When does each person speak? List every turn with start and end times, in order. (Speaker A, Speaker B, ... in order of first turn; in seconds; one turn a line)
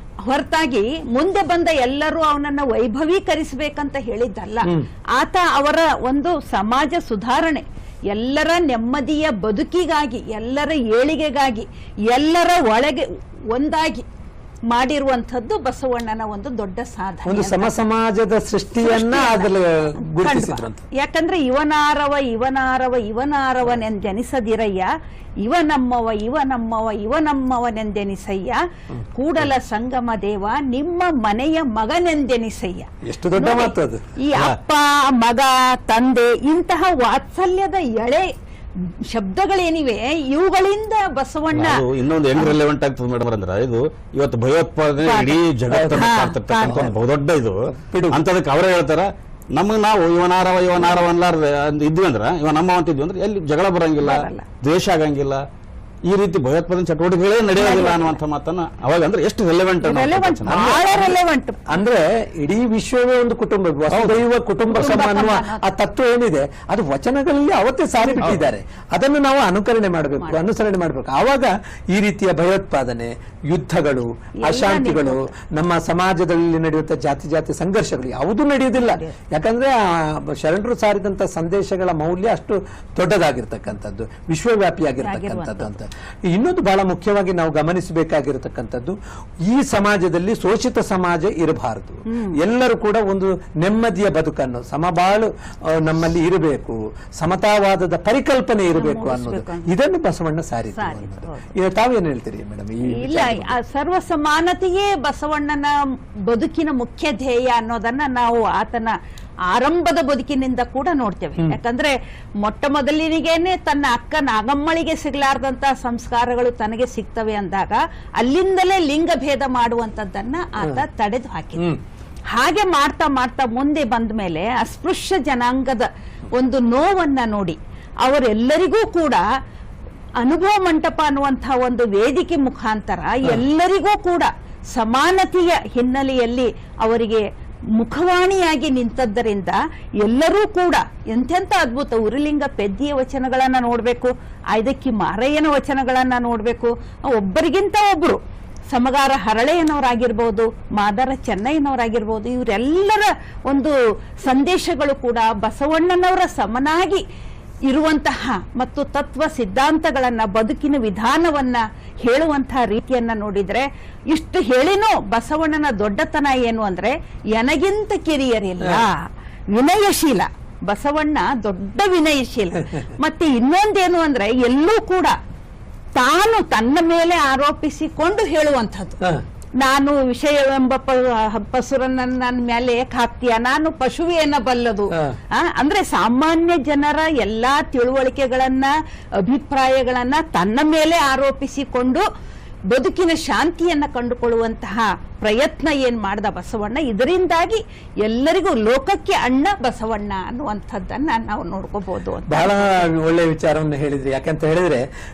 Speaker A: 0.2-14.1
Speaker A: 14.7-17.7
Speaker B: 17.2-20.8
Speaker A: 18.8-24.9
Speaker A: 25.4-28.6
Speaker A: 29.1-38.3
Speaker B: 33.0-34.1
Speaker A: 39.0-41.9
Speaker C: 41.5-55.4
Speaker A: 45.0-45.4
Speaker B: 45.7-46.1
Speaker A: 45.9-46.9
Speaker B: 46.6-47.0
Speaker B: 47.6-48.2
Speaker A: 54.0-54.5
Speaker C: 56.0-60.8
Speaker A: 57.5-58.2
Speaker A: 59.8-61.8
Speaker B: 60.5-103.6
Speaker C: 63.9-64.2
Speaker A: 64.7-65.6
Speaker A: 68.0-68.5
Speaker A: 70.2-70.5
Speaker A: 74.4-75.3
Speaker A: 78.7-79.1
Speaker A: 85.0-85.8
Speaker A: 92.1-92.4
Speaker A: 98.8-99.7
Speaker A: 100.8-101.5
Speaker A: 102.8-105.7
Speaker A: 106.3-108.9
Speaker A: 109.5-121.7
Speaker A: 122.3-129.2
Speaker A: 130.2-137.2
Speaker A: 137.8-157.0
Speaker A: 157.7-175.2
Speaker A: 175.9-179.0
Speaker A: 179.6-192.1
Speaker A: 192.7-202.8
Speaker B: 202.3-204.9